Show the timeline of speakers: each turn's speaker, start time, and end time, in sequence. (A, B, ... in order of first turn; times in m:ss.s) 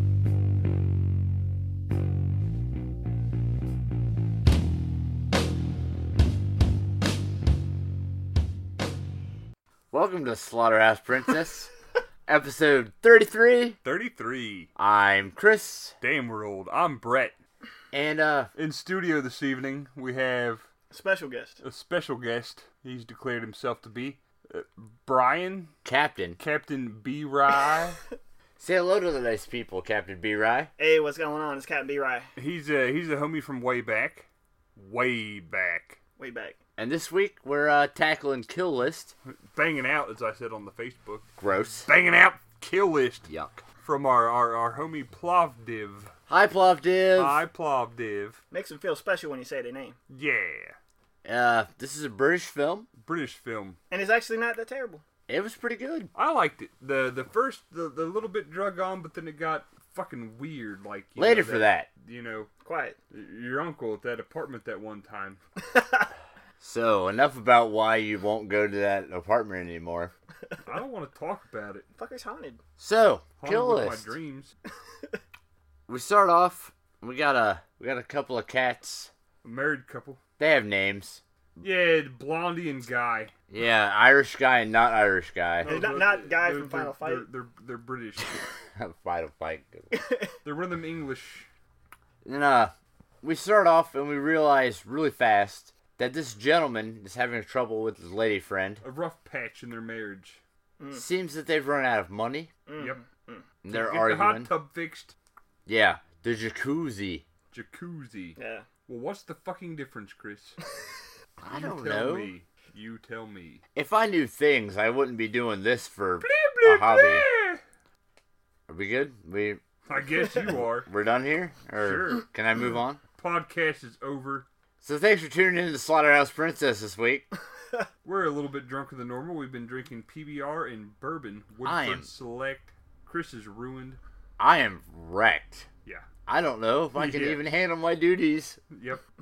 0:09.9-0:11.7 A
0:12.2-0:13.8 A
0:13.8-0:14.7 B
0:14.8-0:16.0 A
0:16.0-0:17.4 B
0:17.9-0:18.5 A
0:18.6-0:20.7 B
0:20.9-0:21.6 C
0:21.6-0:25.7 B
0:25.8-0:26.4 A
0:26.4-0:28.0 B
0:28.6-0:30.7 A
0:30.8-0:32.3 C
0:32.4-0:36.0 B
0:36.2-0:36.6 C
0:36.8-0:39.1 A
0:39.2-0:41.2 B
0:41.4-0:41.9 A
0:41.9-0:43.3 B
0:43.3-0:43.6 A
0:43.8-0:46.1 B
0:46.3-0:47.4 A
0:47.2-0:48.4 B
0:48.5-0:50.0 C
0:50.1-0:50.8 B
0:51.2-0:52.9 A
0:53.0-0:53.8 B
0:53.9-0:55.0 C
0:55.3-0:56.1 A
0:56.1-1:02.5 B
1:01.2-1:01.9 A
1:02.6-1:03.0 C
1:03.1-1:05.4 B
1:05.6-1:06.1 C
1:06.6-1:10.1 A
1:10.6-1:11.9 B
1:12.0-1:12.6 C
1:12.8-1:14.1 A
1:13.4-1:14.5 B
1:15.9-1:19.1 A
1:19.4-1:20.2 B
1:20.4-1:21.6 A
1:21.6-1:23.3 B
1:23.5-1:25.7 A
1:25.6-1:28.5 B
1:25.6-1:27.3 C
1:28.7-1:30.1 A
1:29.9-1:30.3 C
1:30.4-1:31.5 B
1:32.2-1:38.8 A
1:38.8-1:40.4 B
1:40.8-1:41.0 C
1:40.9-1:42.5 A
1:42.7-1:43.4 C
1:43.6-1:44.5 A
1:43.7-1:45.1 B
1:45.6-1:47.2 A
1:47.5-1:50.6 B
1:48.4-1:48.7 C
1:51.4-1:52.3 A
1:51.5-1:53.6 B
1:53.7-1:57.2 A
1:56.2-1:57.6 B
1:58.7-1:59.6 A
1:59.8-2:00.9 B
2:00.6-2:03.0 A
2:01.8-2:02.2 B
2:03.2-2:04.5 B
2:04.8-2:07.3 A
2:08.0-2:14.0 B
2:11.6-2:12.1 A
2:14.4-2:15.7 A
2:16.3-2:18.6 A
2:16.9-2:17.4 B
2:18.7-2:19.0 B